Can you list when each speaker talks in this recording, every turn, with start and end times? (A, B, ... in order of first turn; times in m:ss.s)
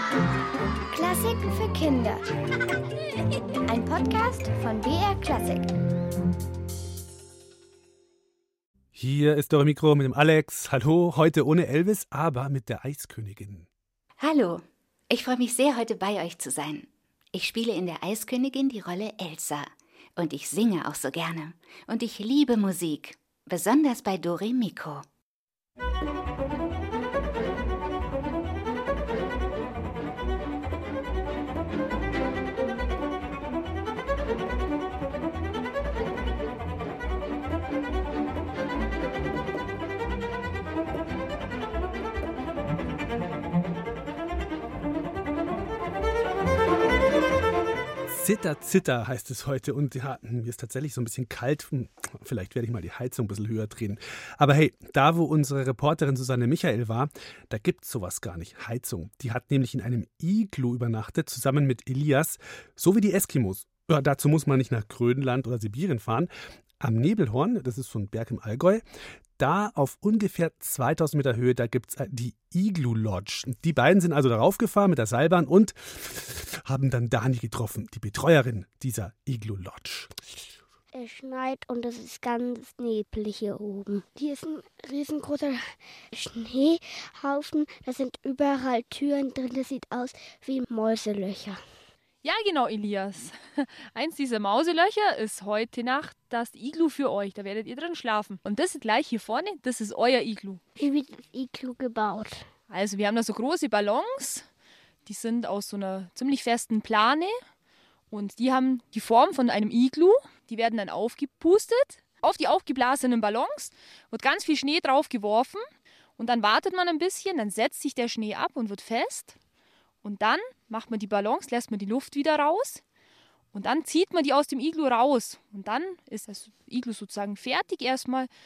0:00.9-0:02.2 A
0:03.6-0:05.7 A
0:09.0-0:13.7 B
0:14.2-0:25.1 C
0:48.1-1:08.8 B
1:09.4-1:20.1 B
1:20.9-1:31.6 D
1:32.2-1:40.6 E
1:40.8-1:42.5 D
1:42.7-1:44.5 E
1:45.0-1:47.4 E
1:48.1-1:55.6 E
1:56.2-1:59.4 E
2:00.0-2:02.8 E
2:03.5-2:08.3 E